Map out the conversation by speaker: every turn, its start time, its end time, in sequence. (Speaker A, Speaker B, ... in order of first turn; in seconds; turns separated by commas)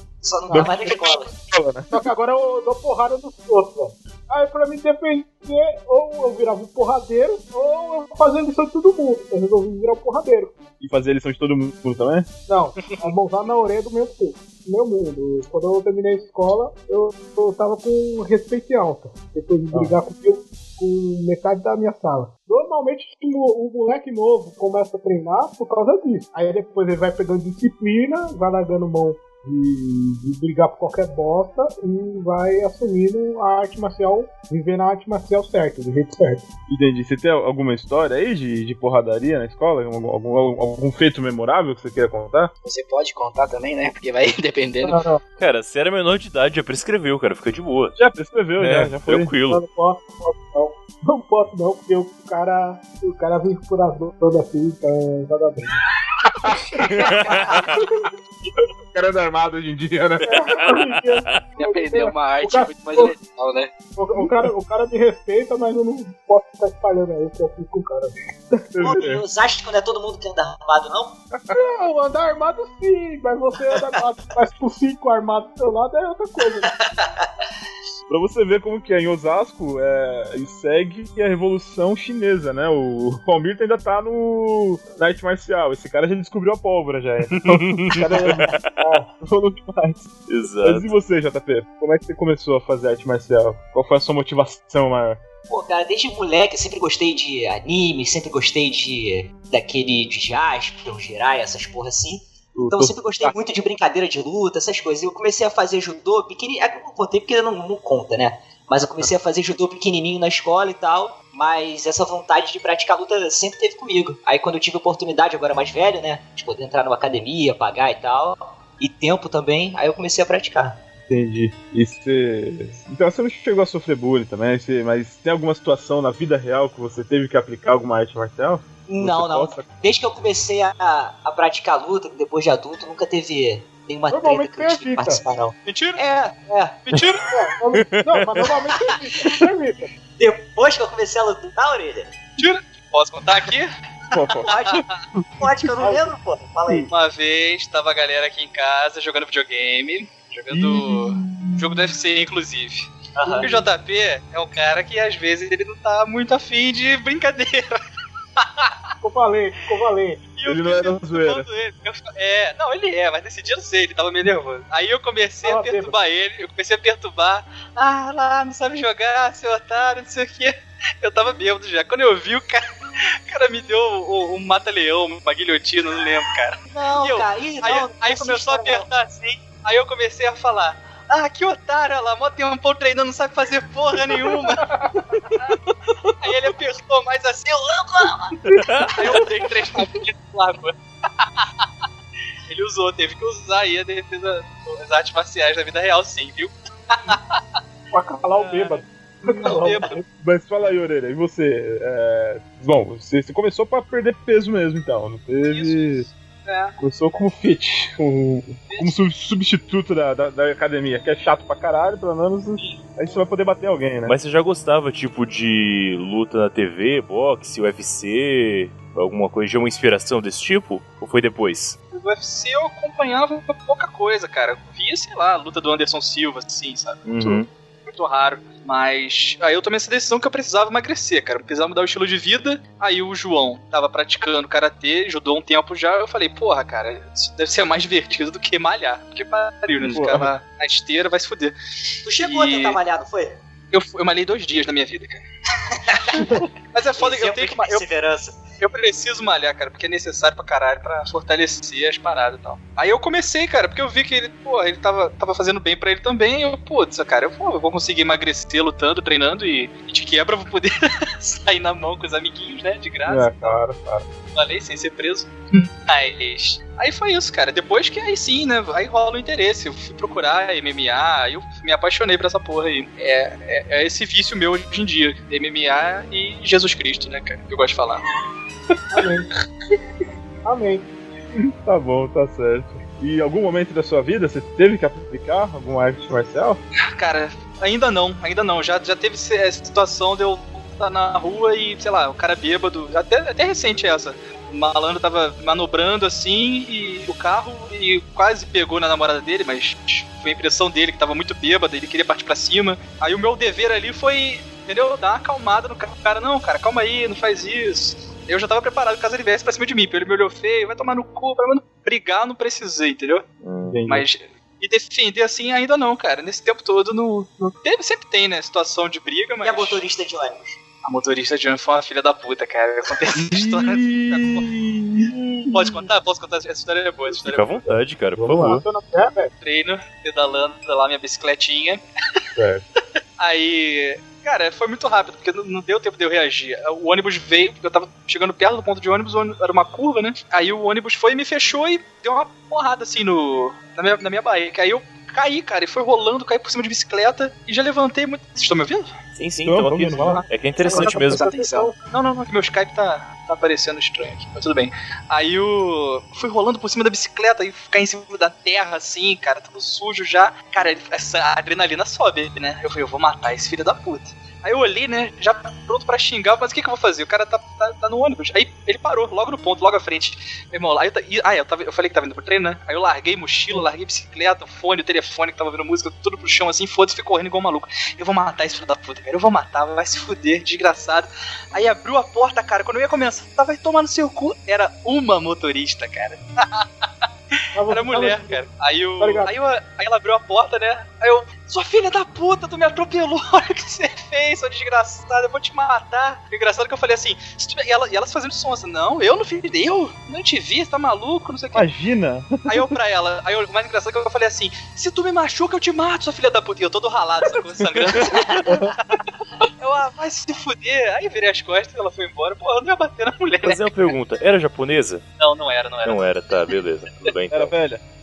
Speaker A: 0.2-1.3, Speaker B: 0.5-2.0, Speaker C: 1.9-10.6, Speaker B: 10.8-12.3, Speaker C: 12.5-36.5, Speaker B: 36.7-42.5, Speaker D: 42.6-45.0, Speaker C: 44.8-45.2, Speaker E: 45.4-48.0, Speaker B: 48.0-49.3, Speaker E: 48.6-49.6, Speaker C: 49.5-55.8, Speaker B: 56.4-57.8, Speaker C: 56.8-57.6, Speaker E: 57.0-57.7, Speaker B: 58.6-60.4, Speaker C: 60.2-63.1, Speaker E: 60.4-61.5, Speaker D: 61.5-63.7, Speaker C: 64.0-68.6, Speaker B: 68.7-69.2, Speaker A: 68.8-71.2, Speaker C: 71.5-76.7, Speaker A: 76.6-77.3, Speaker B: 78.1-88.5, Speaker E: 87.3-88.7, Speaker C: 88.8-89.1, Speaker B: 89.2-90.1, Speaker E: 90.3-90.9, Speaker B: 90.6-95.2, Speaker A: 95.5-120.7, Speaker B: 102.5-103.3, Speaker B: 120.6-129.6, Speaker A: 128.9-136.8, Speaker C: 134.1-135.2, Speaker F: 135.7-136.0, Speaker F: 136.9-137.2, Speaker C: 137.3-139.9, Speaker E: 137.8-138.5, Speaker A: 138.8-139.3, Speaker A: 140.2-142.1, Speaker F: 142.4-143.7, Speaker B: 144.1-145.4, Speaker A: 144.4-144.8, Speaker A: 145.4-146.9, Speaker F: 146.9-152.9, Speaker B: 150.5-151.9, Speaker A: 153.2-153.5, Speaker F: 153.4-157.8, Speaker F: 158.4-158.7, Speaker C: 159.0-160.2, Speaker F: 160.4-172.6, Speaker B: 160.4-161.4, Speaker C: 165.4-165.9, Speaker F: 173.3-184.7, Speaker A: 176.7-178.8, Speaker C: 184.7-185.0, Speaker F: 186.2-191.5, Speaker E: 188.5-189.0, Speaker F: 192.5-197.4, Speaker C: 197.9-200.0, Speaker F: 198.3-198.8, Speaker F: 199.4-199.9, Speaker B: 200.2-206.1, Speaker F: 205.5-206.7, Speaker B: 206.8-214.2, Speaker F: 208.7-208.9, Speaker E: 214.0-221.8, Speaker F: 221.9-241.6, Speaker E: 227.0-227.5, Speaker B: 239.8-240.3, Speaker A: 242.0-243.4, Speaker F: 242.2-242.8, Speaker F: 243.7-245.2, Speaker A: 245.9-246.4, Speaker F: 246.1-247.8, Speaker A: 247.0-248.4, Speaker F: 248.6-263.6, Speaker B: 263.1-264.1, Speaker F: 264.3-278.0, Speaker C: 278.9-279.3, Speaker C: 280.4-280.9, Speaker B: 281.6-286.6, Speaker F: 286.9-313.2, Speaker E: 313.4-313.8, Speaker B: 313.7-314.1, Speaker F: 313.9-319.8, Speaker A: 319.4-320.6, Speaker F: 320.8-324.4, Speaker B: 323.3-325.9, Speaker F: 325.5-327.6, Speaker E: 327.2-328.6, Speaker C: 328.2-329.3, Speaker F: 329.4-331.8, Speaker B: 332.4-332.6, Speaker F: 333.2-348.9, Speaker E: 349.1-351.3, Speaker B: 349.4-350.2, Speaker F: 349.9-350.2, Speaker D: 350.6-351.7, Speaker C: 350.6-351.8, Speaker F: 351.9-386.7, Speaker C: 387.5-388.4, Speaker F: 387.7-401.7, Speaker C: 389.0-389.3, Speaker B: 401.5-402.7, Speaker F: 402.5-408.4, Speaker E: 407.7-408.5, Speaker B: 408.4-408.7, Speaker F: 409.6-413.7, Speaker E: 413.4-415.0, Speaker F: 415.2-416.0, Speaker E: 415.8-417.5, Speaker B: 417.3-417.8